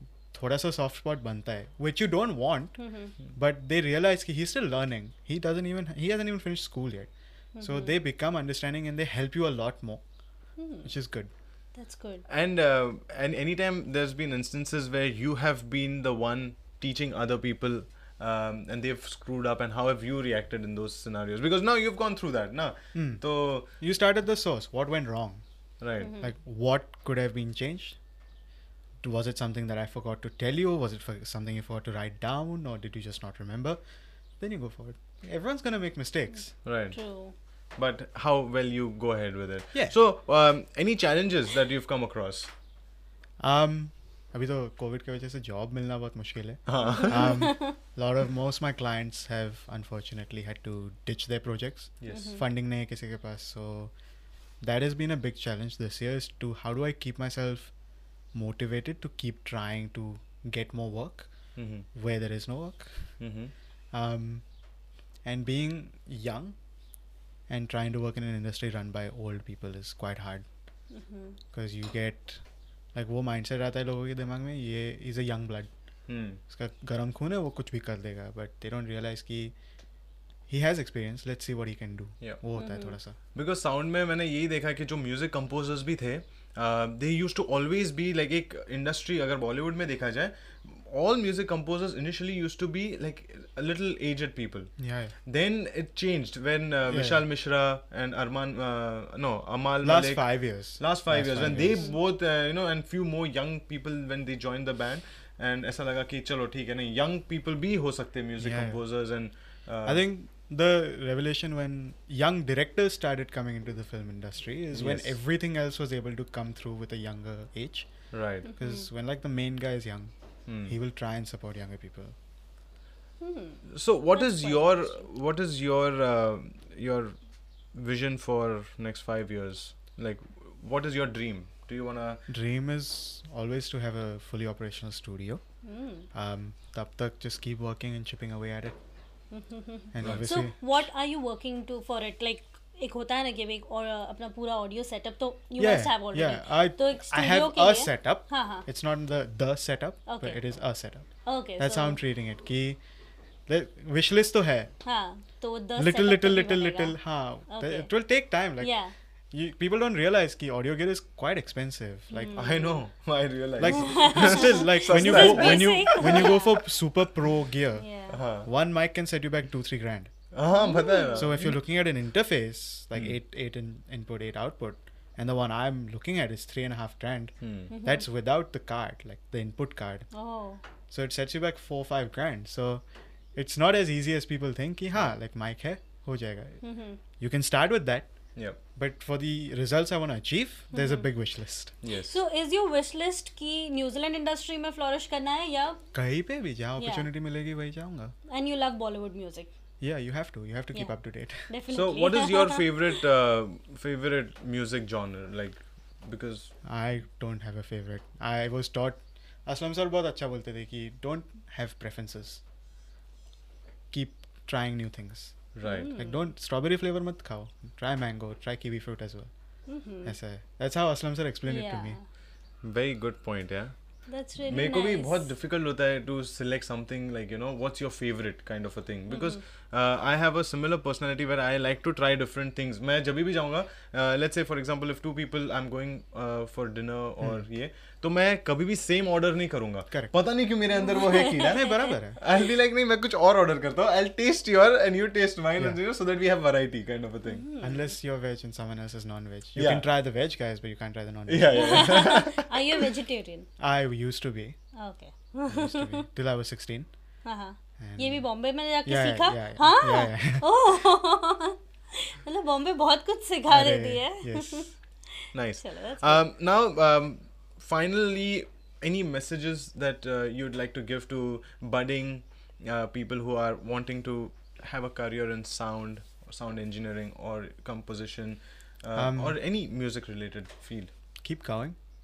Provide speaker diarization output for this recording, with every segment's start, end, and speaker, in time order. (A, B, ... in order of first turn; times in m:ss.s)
0:00.3-0:02.8 A
0:02.8-0:03.1 B
0:03.3-0:07.1 A
0:07.6-0:08.0 B
0:07.6-0:10.0 A
0:10.6-0:10.9 B
0:10.8-0:11.3 A
0:11.8-0:12.2 B
0:12.3-0:23.7 C
0:22.9-0:23.2 A
0:23.8-0:25.4 A
0:25.8-0:26.1 C
0:26.0-0:26.3 B
0:26.2-0:28.0 A
0:29.0-0:33.8 A
0:34.4-0:36.5 A
0:36.6-0:37.0 C
0:36.9-0:37.3 B
0:37.8-0:42.5 C
0:43.4-0:53.9 A
0:46.7-0:47.3 C
0:47.0-0:47.7 B
0:52.0-0:52.3 C
0:52.1-0:52.4 B
0:54.6-0:57.7 A
0:58.3-1:01.3 A
1:01.6-1:01.9 C
1:01.9-1:03.0 A
1:03.2-1:03.5 C
1:03.9-1:04.4 A
1:05.2-1:06.6 A
1:07.5-1:10.4 A
1:10.9-1:11.4 B
1:11.5-1:12.4 A
1:12.9-1:15.7 A
1:16.1-1:16.4 C
1:16.5-1:19.5 A
1:20.5-1:23.2 A
1:22.6-1:23.0 B
1:23.4-1:34.7 C
1:34.8-1:35.1 A
1:35.2-1:40.3 C
1:36.9-1:37.2 A
1:39.8-1:41.9 A
1:40.8-1:50.0 C
1:48.4-1:48.8 A
1:49.8-1:57.9 A
1:54.7-1:55.1 C
1:58.1-1:58.5 C
1:58.4-1:58.9 B
1:58.6-2:00.1 A
2:00.5-2:00.7 C
2:00.6-2:02.1 A
2:03.2-2:03.6 B
2:03.7-2:07.1 C
2:04.1-2:05.0 B
2:07.7-2:12.2 C
2:12.3-2:15.4 A
2:15.6-2:16.1 B
2:16.1-2:18.8 A
2:19.3-2:28.6 B
2:19.9-2:20.6 A
2:20.0-2:20.2 C
2:25.6-2:31.1 A
2:30.1-2:30.4 B
2:31.2-2:32.0 B
2:31.6-2:32.8 A
2:33.5-2:34.7 A
2:34.8-2:37.0 B
2:35.8-2:38.7 A
2:37.5-2:37.9 B
2:38.6-2:38.9 B
2:39.3-2:42.5 A
2:42.1-2:42.8 B
2:42.3-2:46.4 C
2:43.6-2:47.9 A
2:43.7-2:46.6 B
2:47.8-2:48.2 B
2:48.1-2:48.5 C
2:48.4-2:50.1 A
2:50.3-2:51.6 C
2:50.5-2:51.3 B
2:51.1-3:00.1 A
2:57.4-2:57.7 C
2:57.7-2:58.1 B
3:00.1-3:00.6 B
3:00.9-3:02.8 A
3:03.4-3:06.6 A
3:06.6-3:07.0 B
3:07.2-3:08.1 A
3:08.8-3:11.7 A
3:10.7-3:11.1 B
3:11.8-3:12.2 C
3:12.0-3:15.8 B
3:15.9-3:18.1 A
3:16.8-3:17.1 B
3:18.3-3:19.5 B
3:19.8-3:21.5 A
3:21.5-3:22.9 B
3:21.7-3:26.5 C
3:26.6-3:32.4 A
3:33.9-3:39.3 A
3:35.6-3:35.9 C
3:35.6-3:36.2 B
3:39.7-3:40.1 B
3:40.0-3:42.0 A
3:41.5-3:42.0 B
3:42.6-3:43.7 C
3:44.1-3:45.3 B
3:44.4-4:01.6 C
3:49.1-3:49.4 B
4:00.8-4:01.9 B
4:01.4-4:02.2 A
4:02.2-4:07.4 C
4:07.2-4:07.9 B
4:07.6-4:12.1 A
4:09.6-4:09.9 C
4:11.3-4:12.8 C
4:11.5-4:13.5 B
4:13.6-4:14.6 A
4:14.8-4:16.0 B
4:15.5-4:16.9 A
4:17.2-4:24.7 B
4:17.8-4:18.2 A
4:18.8-4:20.5 A
4:23.5-4:24.7 A
4:25.3-4:40.9 C
4:25.6-4:26.2 B
4:38.9-4:39.4 A
4:41.2-4:41.8 A